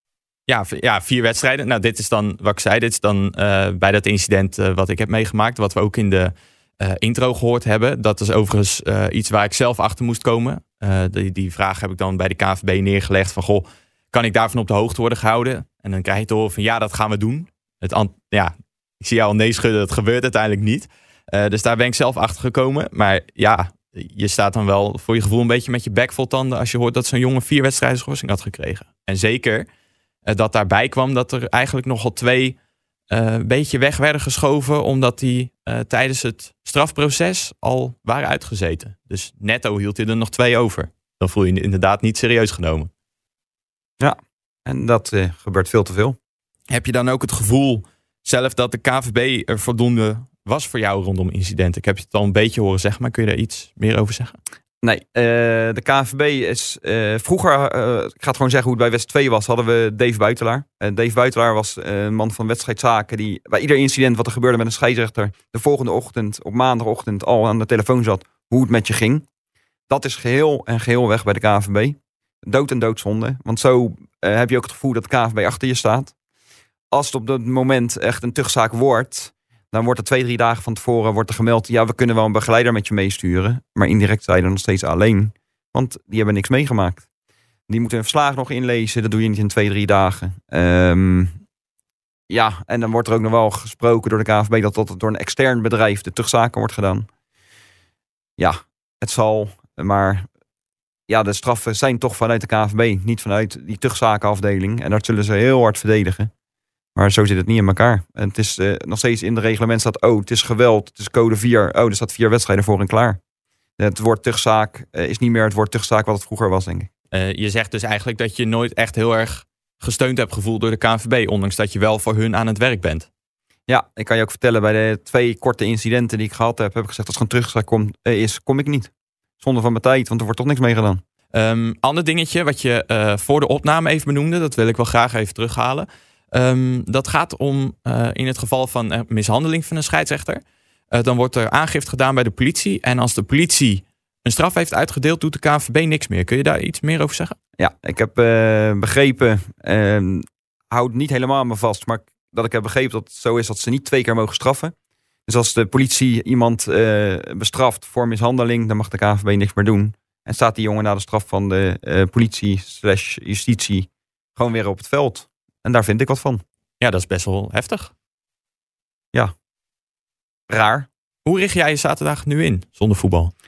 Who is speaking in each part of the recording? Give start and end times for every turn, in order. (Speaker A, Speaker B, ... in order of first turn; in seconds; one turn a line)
Speaker A: 0.5-29.7
Speaker A: 30.2-32.5
Speaker A: 33.1-42.9
Speaker B: 44.0-46.2
Speaker A: 46.7-54.4
Speaker B: 54.8-69.2
Speaker B: 69.9-76.1
Speaker B: 76.9-87.0
Speaker B: 87.7-91.4
Speaker B: 92.3-97.1
Speaker B: 98.4-100.3
Speaker B: 101.1-106.3
Speaker B: 107.0-113.2
Speaker B: 113.8-116.9
Speaker A: 117.1-123.1
Speaker B: 123.7-131.0
Speaker A: 131.3-147.3
Speaker B: 147.6-154.7
Speaker B: 155.3-166.4
Speaker A: 166.8-167.9
Speaker B: 170.5-170.9
Speaker A: 171.2-173.3